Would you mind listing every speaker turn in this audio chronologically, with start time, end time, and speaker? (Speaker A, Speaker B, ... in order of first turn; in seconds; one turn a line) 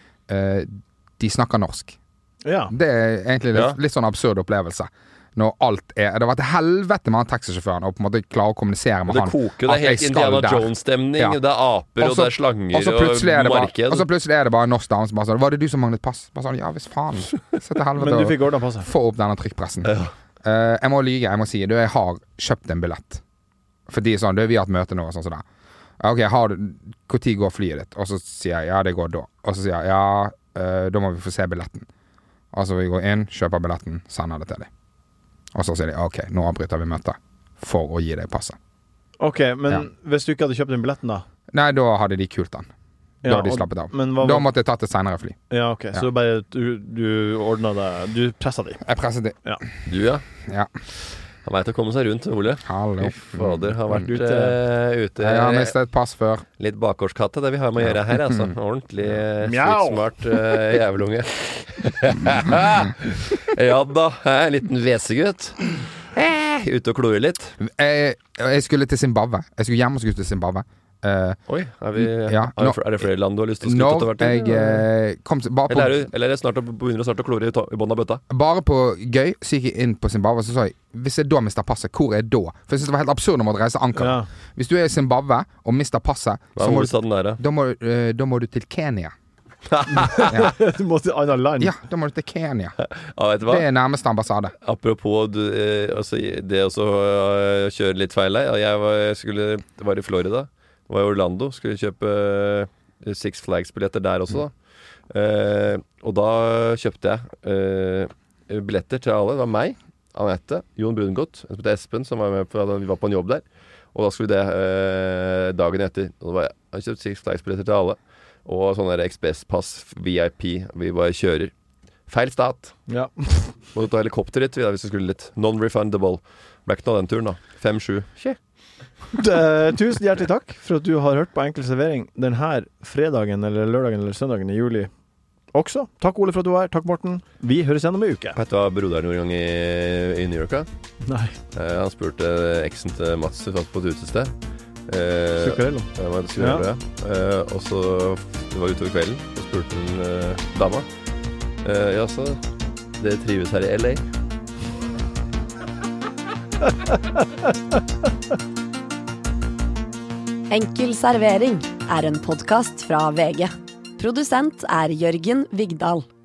Speaker A: 0.3-2.0
Speaker B: 2.5-2.7
Speaker A: 2.7-11.4
Speaker C: 9.1-14.1
Speaker A: 12.0-23.2
Speaker B: 18.0-18.9
Speaker C: 19.8-20.1
Speaker A: 23.9-25.4
Speaker A: 26.0-31.9
Speaker A: 32.5-34.7
Speaker A: 35.5-38.6
Speaker B: 39.2-41.2
Speaker A: 41.5-42.7
Speaker B: 43.2-44.5
Speaker A: 43.2-45.4
Speaker B: 45.5-48.8
Speaker A: 48.8-49.4
Speaker C: 49.9-50.2
Speaker A: 50.5-50.7
Speaker C: 51.4-55.7
Speaker A: 52.6-54.0
Speaker B: 54.0-54.6
Speaker A: 55.2-56.5
Speaker C: 56.6-67.6
Speaker A: 57.8-58.5
Speaker B: 59.4-60.4
Speaker A: 67.6-71.4
Speaker C: 71.5-74.5
Speaker A: 72.0-72.8
Speaker A: 73.6-76.1
Speaker C: 75.7-78.2
Speaker A: 78.3-89.1
Speaker B: 84.0-84.3
Speaker C: 86.6-87.4
Speaker C: 89.7-90.5
Speaker B: 89.9-91.7
Speaker A: 91.6-92.8
Speaker C: 92.8-93.7
Speaker A: 93.5-94.5
Speaker C: 94.6-104.5
Speaker C: 105.1-121.5
Speaker C: 122.1-122.7
Speaker B: 122.9-123.5
Speaker C: 123.7-128.4
Speaker B: 129.1-134.9
Speaker B: 135.5-138.4
Speaker C: 138.3-140.7
Speaker B: 141.1-141.4
Speaker C: 141.5-144.3
Speaker C: 144.9-150.9
Speaker B: 145.4-146.7
Speaker C: 151.6-152.4
Speaker C: 153.0-154.0
Speaker D: 160.5-166.1